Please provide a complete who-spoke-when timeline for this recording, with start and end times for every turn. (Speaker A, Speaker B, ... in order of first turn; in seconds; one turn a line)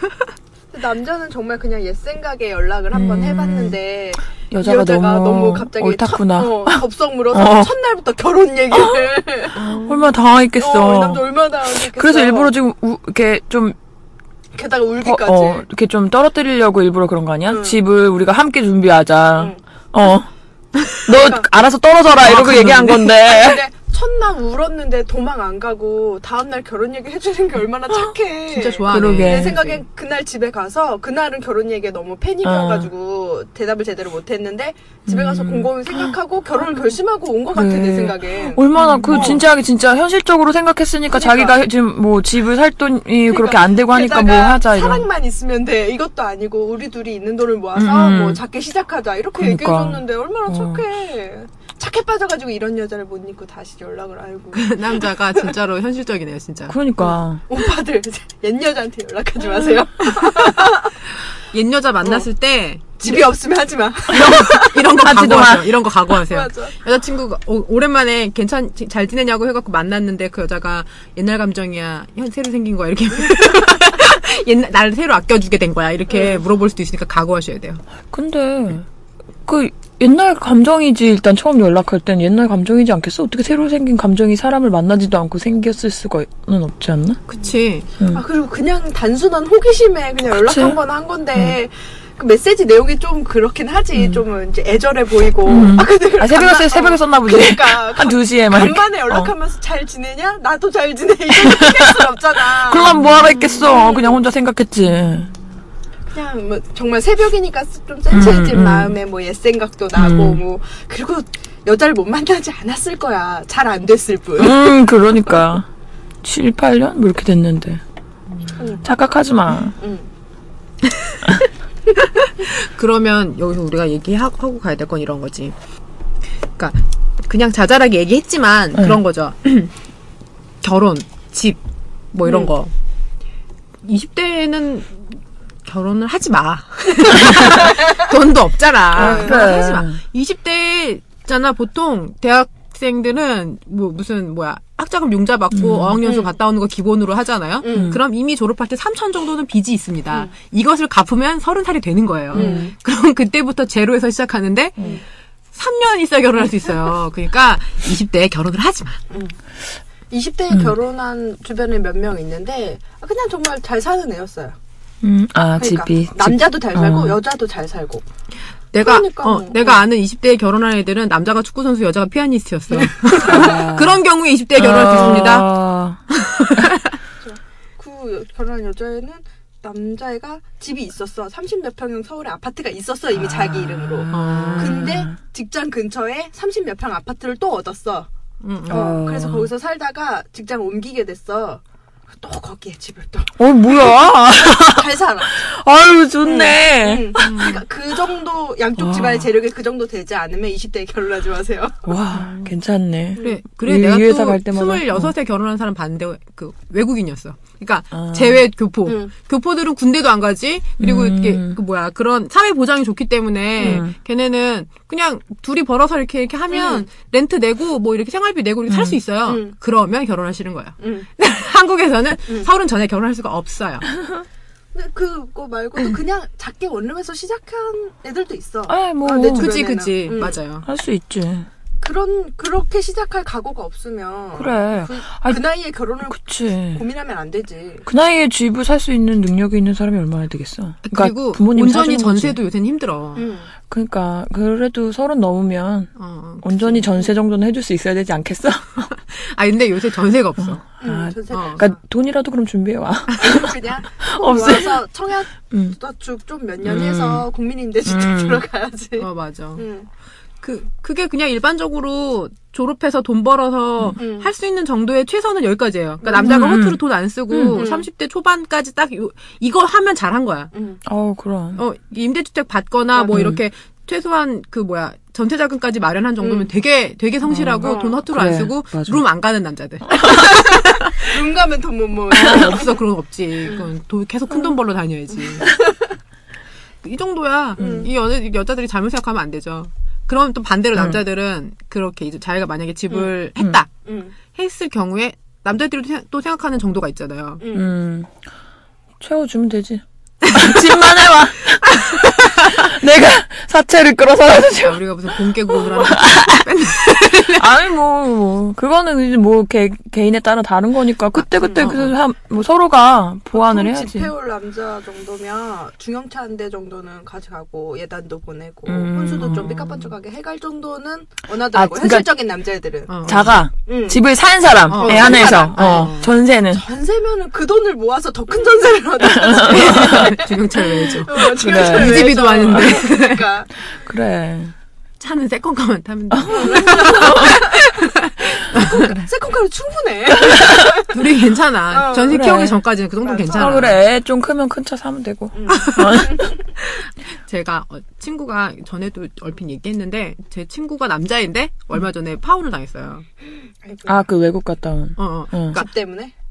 Speaker A: 0.7-9.7
Speaker B: 2.9-3.8
Speaker B: 4.5-7.7
Speaker B: 8.7-9.1
Speaker C: 9.6-10.1
Speaker B: 9.7-13.8
Speaker A: 10.6-12.5
Speaker A: 14.6-15.7
Speaker B: 15.0-20.3
Speaker A: 17.5-17.8
Speaker B: 21.1-23.6
Speaker A: 21.1-21.5
Speaker C: 22.2-23.1
Speaker A: 22.4-39.4
Speaker C: 28.5-29.8
Speaker B: 28.9-29.6
Speaker B: 32.4-32.9
Speaker B: 35.1-36.1
Speaker B: 37.5-45.1
Speaker C: 38.8-39.4
Speaker A: 41.1-41.6
Speaker A: 43.3-55.5
Speaker C: 47.8-48.4
Speaker B: 49.4-50.8
Speaker C: 54.5-56.8
Speaker B: 56.7-57.4
Speaker A: 57.0-60.9
Speaker C: 60.0-60.8
Speaker C: 61.5-63.2
Speaker A: 63.0-64.8
Speaker B: 64.1-65.8
Speaker C: 64.1-77.8
Speaker A: 66.2-66.8
Speaker A: 76.1-76.4
Speaker B: 78.1-78.9
Speaker B: 79.5-87.2
Speaker C: 87.3-87.9
Speaker A: 88.1-104.2
Speaker B: 90.4-90.8
Speaker B: 94.0-94.2
Speaker B: 95.5-99.3
Speaker B: 101.3-105.3
Speaker A: 106.1-114.6
Speaker B: 108.1-109.0
Speaker B: 110.0-110.4
Speaker B: 114.4-115.7
Speaker B: 116.2-117.8
Speaker A: 118.6-118.9
Speaker B: 118.8-119.8
Speaker A: 119.8-120.1
Speaker C: 122.2-125.5
Speaker C: 126.6-129.7
Speaker C: 130.6-131.6
Speaker C: 132.1-132.7
Speaker C: 133.8-135.1
Speaker C: 135.7-154.9
Speaker A: 137.3-138.0
Speaker A: 139.0-139.5
Speaker B: 139.0-140.0
Speaker B: 145.5-146.0
Speaker A: 146.0-146.3
Speaker A: 147.6-147.9
Speaker B: 152.3-152.7
Speaker A: 152.3-152.7
Speaker C: 155.5-159.0
Speaker A: 159.1-159.4
Speaker A: 160.1-164.6
Speaker B: 165.0-167.2
Speaker A: 165.6-168.1
Speaker C: 168.7-175.5
Speaker A: 168.8-169.8
Speaker A: 172.7-173.6
Speaker B: 173.2-174.0
Speaker B: 174.6-176.0
Speaker C: 176.1-176.9
Speaker A: 177.2-188.1
Speaker B: 183.2-185.1
Speaker C: 184.1-184.9
Speaker C: 188.4-188.8
Speaker B: 188.7-189.5
Speaker A: 188.7-195.4
Speaker B: 193.4-197.5
Speaker A: 196.2-201.9
Speaker C: 197.2-197.6
Speaker B: 198.8-199.3
Speaker B: 201.9-205.1
Speaker C: 203.2-223.9
Speaker B: 208.0-208.4
Speaker B: 210.8-211.6
Speaker A: 213.6-213.8
Speaker B: 213.6-213.9
Speaker A: 216.5-216.9
Speaker B: 218.7-219.0
Speaker A: 219.3-219.5
Speaker A: 220.8-221.1
Speaker A: 224.7-230.4
Speaker B: 228.7-229.5
Speaker C: 229.3-230.7
Speaker B: 230.6-231.5
Speaker A: 231.8-236.2
Speaker B: 234.4-235.4
Speaker B: 236.0-236.8
Speaker A: 236.7-237.9
Speaker B: 237.9-242.4
Speaker C: 240.8-243.3
Speaker A: 243.2-243.5
Speaker B: 243.7-245.9
Speaker C: 246.0-246.9
Speaker B: 246.4-248.9
Speaker C: 248.9-250.7
Speaker B: 250.5-254.8
Speaker A: 250.8-251.8
Speaker C: 251.3-251.6
Speaker A: 253.2-259.9
Speaker B: 255.5-255.8
Speaker B: 256.6-257.2
Speaker B: 257.9-258.4
Speaker C: 259.0-259.6
Speaker C: 260.4-270.5
Speaker A: 264.0-264.3
Speaker A: 266.0-266.5
Speaker B: 266.2-267.6
Speaker A: 267.5-267.9
Speaker A: 270.5-270.8
Speaker B: 270.9-271.6
Speaker C: 271.6-281.1
Speaker B: 273.1-273.4
Speaker A: 276.2-276.5
Speaker B: 277.3-279.0
Speaker A: 277.6-278.0
Speaker B: 279.9-280.3
Speaker A: 280.0-282.8
Speaker B: 282.1-282.6
Speaker C: 282.1-285.5
Speaker A: 285.3-285.9
Speaker C: 286.8-293.7
Speaker A: 287.6-287.9
Speaker B: 290.8-291.0
Speaker A: 293.9-294.1
Speaker C: 294.3-297.4
Speaker A: 297.4-297.7
Speaker B: 297.5-298.2
Speaker B: 299.0-314.1
Speaker C: 301.7-302.6
Speaker C: 304.6-307.6
Speaker C: 311.2-311.9
Speaker A: 311.4-311.7
Speaker A: 313.3-324.0
Speaker B: 318.7-319.9
Speaker B: 321.5-322.1
Speaker C: 322.9-323.4
Speaker B: 323.1-326.6
Speaker C: 324.7-326.1
Speaker A: 324.8-326.0
Speaker A: 326.5-333.5
Speaker B: 329.0-330.1
Speaker C: 329.5-333.2
Speaker B: 330.7-332.8
Speaker B: 333.7-334.5
Speaker C: 335.0-338.9
Speaker B: 336.1-337.4
Speaker A: 336.3-337.6
Speaker A: 338.6-340.9
Speaker B: 340.2-340.6
Speaker C: 340.9-343.8
Speaker A: 341.7-342.2
Speaker B: 342.1-342.6
Speaker A: 343.0-343.6
Speaker B: 343.3-346.3
Speaker A: 345.3-346.4
Speaker C: 345.5-353.1
Speaker A: 353.6-354.0
Speaker B: 353.9-355.6
Speaker C: 355.0-355.7
Speaker A: 355.5-356.1